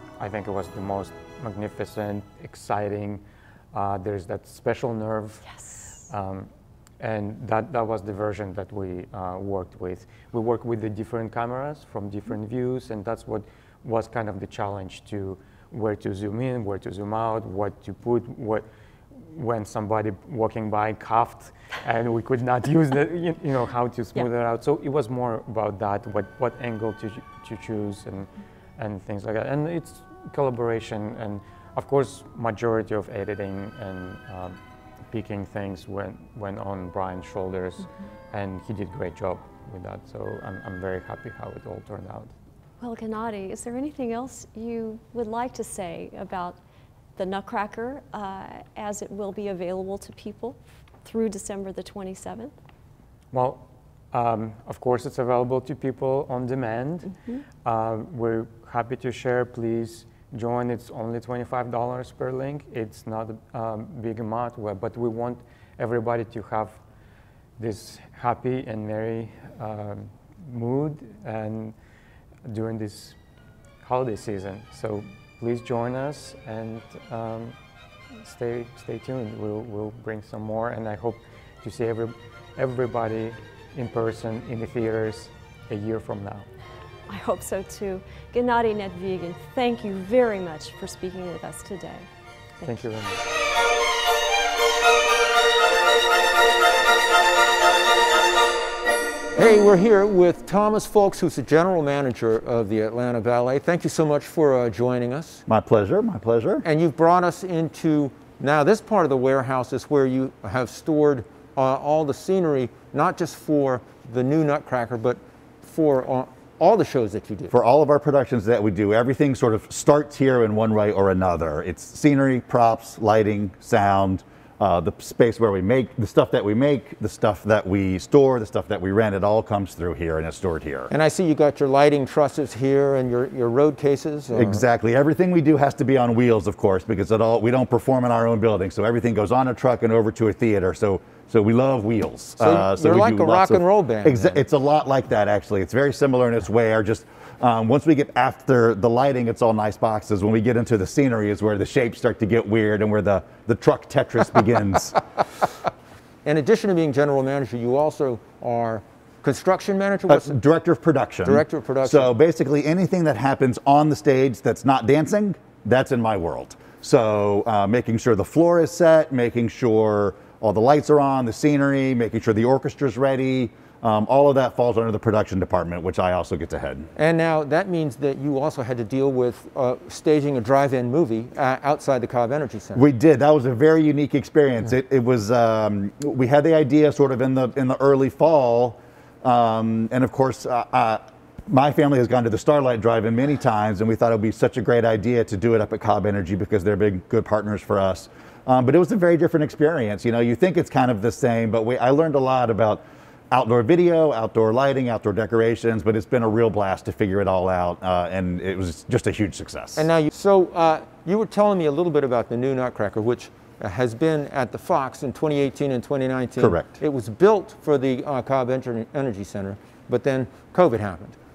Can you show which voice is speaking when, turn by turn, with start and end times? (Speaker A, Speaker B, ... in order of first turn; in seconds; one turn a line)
Speaker A: 0.2-5.5
Speaker B: 5.5-5.9
Speaker A: 6.1-34.6
Speaker A: 35.1-42.3
Speaker B: 42.8-46.6
Speaker B: 47.1-52.5
Speaker A: 53.3-57.1
Speaker A: 57.6-66.8
Speaker A: 67.6-71.8
Speaker A: 72.4-73.2
Speaker A: 73.8-77.6
Speaker A: 78.2-86.5
Speaker B: 87.1-92.1
Speaker B: 92.6-92.8
Speaker A: 92.6-93.2
Speaker C: 99.3-105.4
Speaker D: 105.5-106.6
Speaker C: 106.6-117.5
Speaker D: 117.5-130.9
Speaker C: 130.9-134.6
Speaker D: 134.3-154.9
Speaker C: 142.4-144.4
Speaker C: 156.2-160.4
Speaker D: 160.1-176.9
Speaker C: 161.2-162.1
Speaker C: 176.9-182.8
Speaker D: 182.7-209.9
Speaker C: 209.8-221.2
Speaker D: 216.4-216.7